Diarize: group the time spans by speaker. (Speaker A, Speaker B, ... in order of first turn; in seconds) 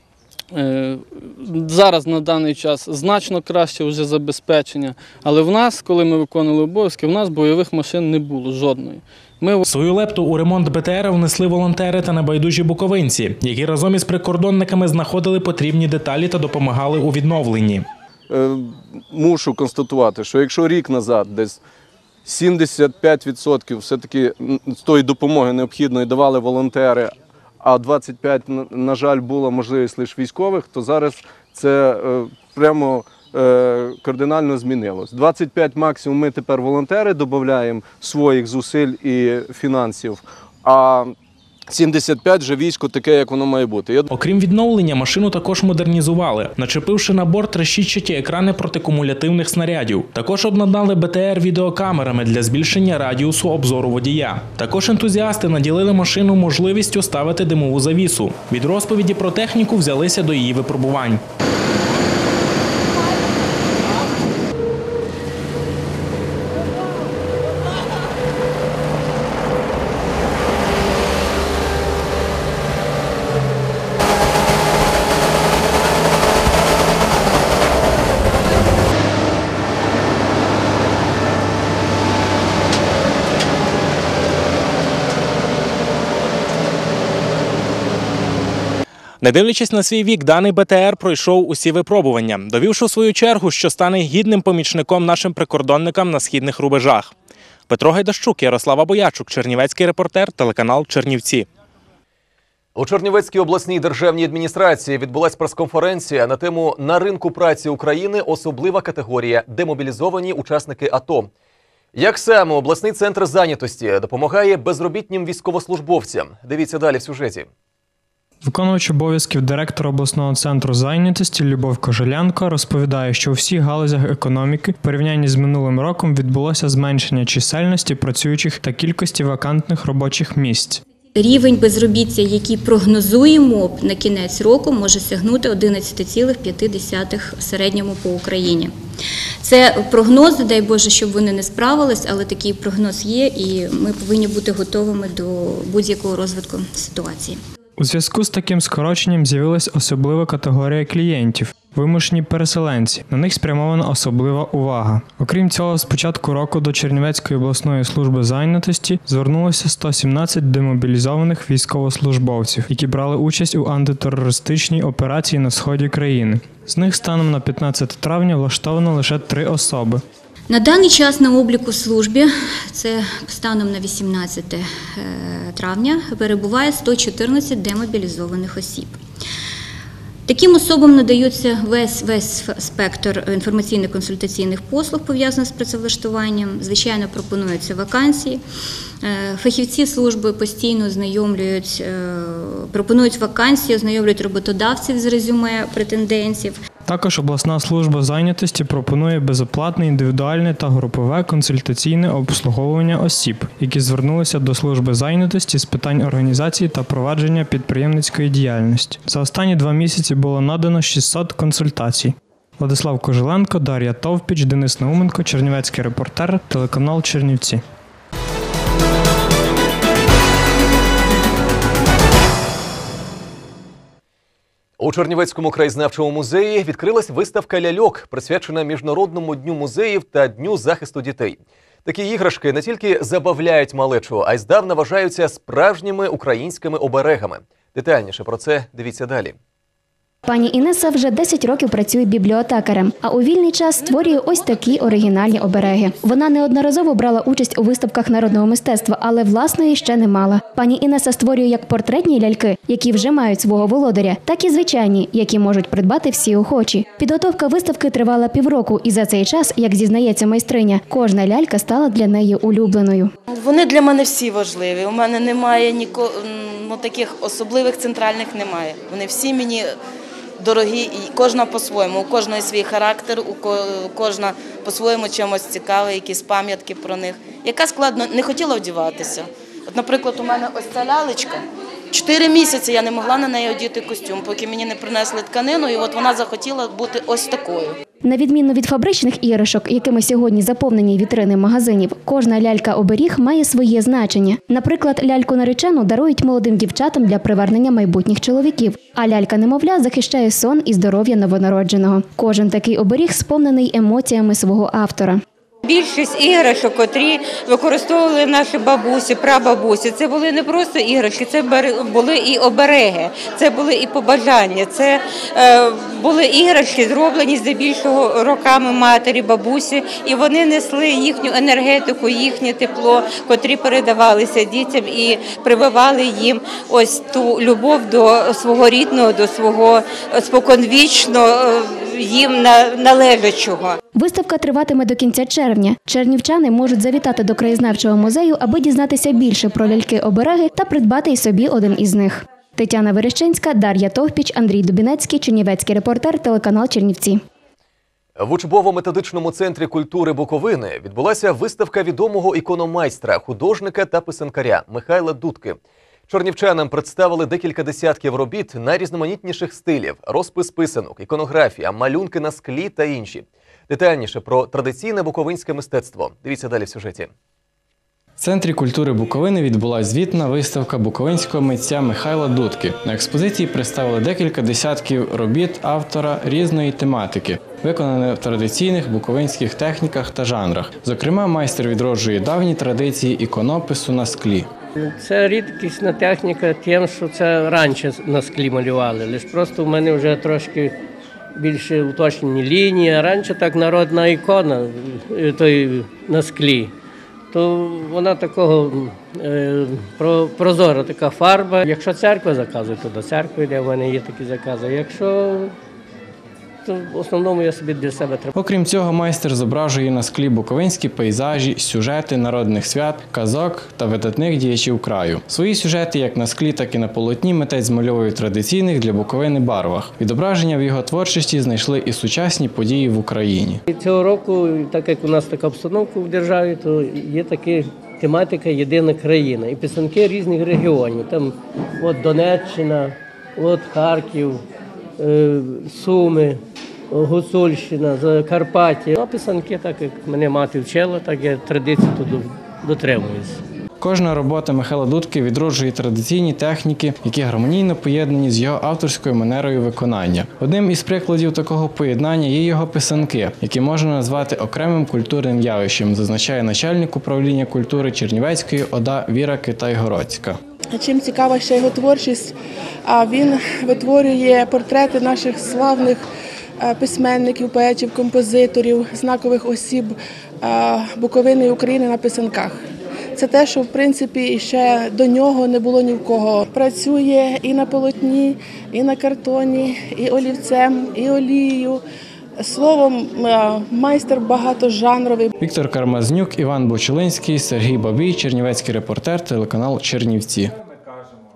Speaker A: 0.5-9.6
Speaker B: 9.6-17.9, 44.1-61.2, 89.2-97.1, 97.7-101.5, 368.2-384.5, 408.4-423.6, 443.8-460.4, 485.4-490.5
Speaker C: 18.3-21.6, 22.3-41.2, 41.7-44.1
Speaker D: 102.8-111.3, 112.0-117.5, 224.8-239.4, 348.2-355.6, 356.1-367.1
Speaker E: 118.4-130.8, 147.8-170.0, 196.9-217.6
Speaker F: 131.2-138.7, 139.4-147.4, 170.5-179.0, 180.3-188.4, 189.0-196.6
Speaker G: 240.3-263.1, 288.0-305.2, 333.9-347.2
Speaker H: 263.3-269.7, 270.4-281.4, 281.9-287.8
Speaker I: 305.6-333.8
Speaker J: 385.0-390.7, 391.4-396.7, 397.3-405.5, 406.6-408.3, 423.7-434.4, 435.0-443.4
Speaker K: 460.7-462.3, 462.9-466.0, 466.6-472.6, 473.2-481.8, 482.4-485.3